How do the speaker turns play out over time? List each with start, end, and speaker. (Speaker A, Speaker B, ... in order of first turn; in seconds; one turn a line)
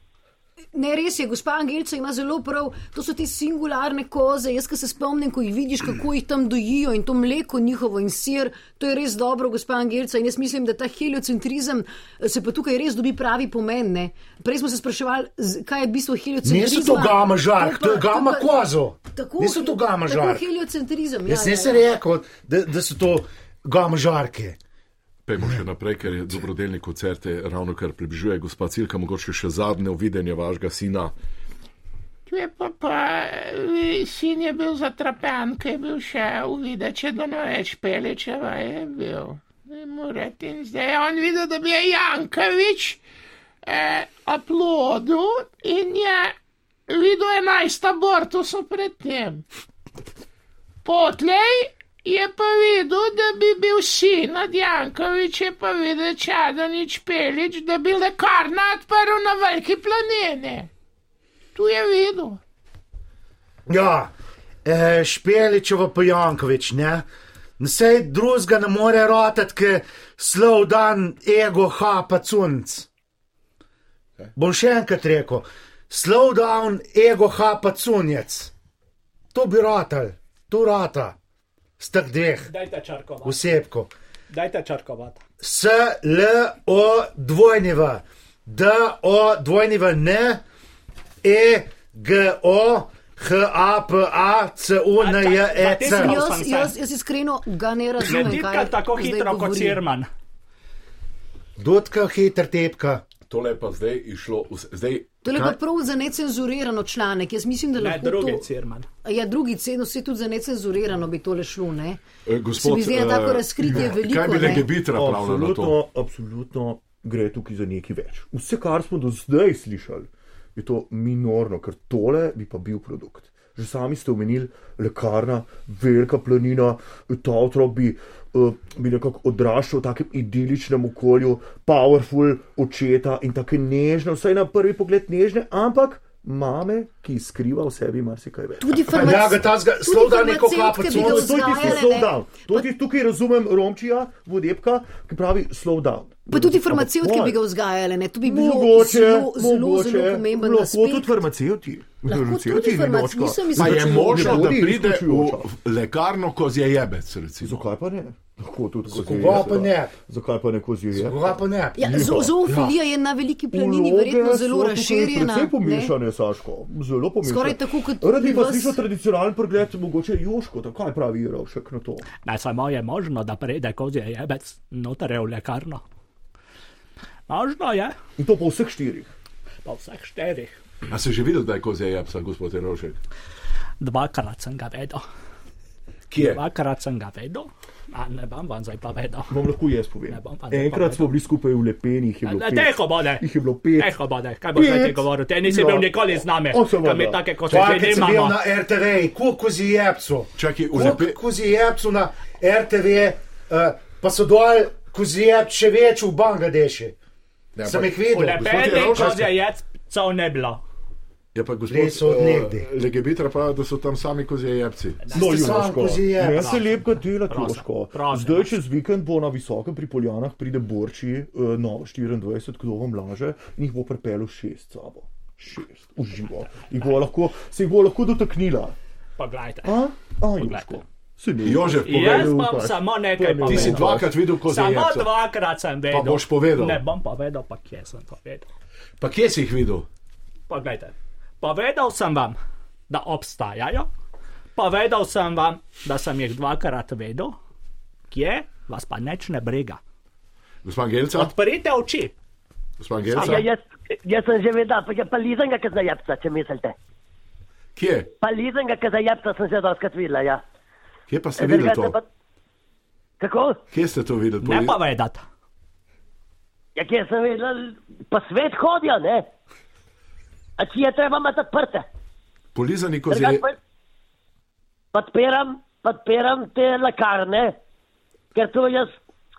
Speaker A: 0.7-18.5
Speaker B: 16.4-20.4
Speaker A: 19.1-21.8
Speaker B: 21.3-24.6
Speaker C: 25.2-31.1
Speaker D: 32.3-43.0
Speaker D: 43.6-46.4
Speaker D: 46.9-49.4
Speaker D: 50.8-60.7
Speaker D: 61.5-62.4
Speaker B: 63.7-64.1
Speaker B: 64.6-67.0
Speaker B: 67.6-72.9
Speaker B: 74.3-78.5
Speaker B: 79.3-81.2
Speaker B: 81.8-82.5
Speaker E: 82.5-83.4
Speaker B: 83.2-83.9
Speaker E: 84.3-85.2
Speaker B: 85.4-90.4
Speaker B: 91.2-96.2
Speaker E: 95.0-96.7
Speaker A: 95.9-99.8
Speaker E: 98.0-100.1
Speaker B: 101.6-103.0
Speaker C: 103.3-105.6
Speaker A: 105.2-108.4
Speaker E: 107.8-108.9
Speaker A: 109.0-112.0
Speaker C: 112.2-115.8
Speaker A: 112.6-114.7
Speaker F: 114.9-139.3
Speaker A: 138.6-142.6
Speaker B: 138.9-141.8
Speaker F: 140.8-147.4
Speaker A: 146.3-151.1
Speaker F: 148.2-155.5
Speaker A: 152.1-154.4
Speaker C: 153.5-157.7
Speaker F: 157.4-162.4
Speaker B: 158.9-159.9
Speaker C: 158.9-159.5
Speaker B: 160.9-161.9
Speaker A: 161.8-165.9
Speaker B: 162.4-162.7
Speaker F: 163.5-172.1
Speaker A: 167.2-168.8
Speaker E: 172.2-175.8
Speaker E: 177.3-177.9
Speaker F: 178.2-179.1
Speaker E: 179.6-180.5
Speaker C: 180.9-183.0
Speaker E: 183.8-185.0
Speaker C: 186.1-186.4
Speaker E: 186.2-189.4
Speaker F: 189.3-193.9
Speaker E: 190.1-191.1
Speaker E: 192.2-198.4
Speaker F: 194.5-197.3
Speaker B: 197.4-206.9
Speaker C: 200.3-201.2
Speaker C: 207.6-209.3
Speaker B: 207.6-209.2
Speaker E: 208.1-210.6
Speaker C: 211.3-215.1
Speaker B: 211.7-212.7
Speaker E: 215.0-218.5
Speaker B: 215.1-216.6
Speaker F: 215.1-228.7
Speaker E: 229.2-229.8
Speaker F: 229.6-234.1
Speaker E: 230.3-230.8
Speaker C: 231.4-232.4
Speaker E: 231.8-238.5
Speaker C: 233.4-235.1
Speaker C: 235.9-236.8
Speaker C: 239.0-239.9
Speaker E: 240.5-242.4
Speaker E: 242.9-243.9
Speaker E: 244.6-247.3
Speaker E: 248.1-249.8
Speaker C: 250.6-251.3
Speaker E: 251.1-252.1
Speaker C: 252.8-253.5
Speaker E: 253.1-253.4
Speaker G: 253.1-256.8
Speaker C: 257.8-258.1
Speaker G: 258.2-260.4
Speaker C: 261.1-261.9
Speaker G: 261.4-262.0
Speaker G: 263.2-263.6
Speaker C: 263.7-264.8
Speaker E: 264.4-265.2
Speaker G: 266.8-269.2
Speaker G: 270.6-271.8
Speaker C: 272.5-273.4
Speaker G: 273.1-273.5
Speaker G: 274.9-277.6
Speaker G: 278.3-279.0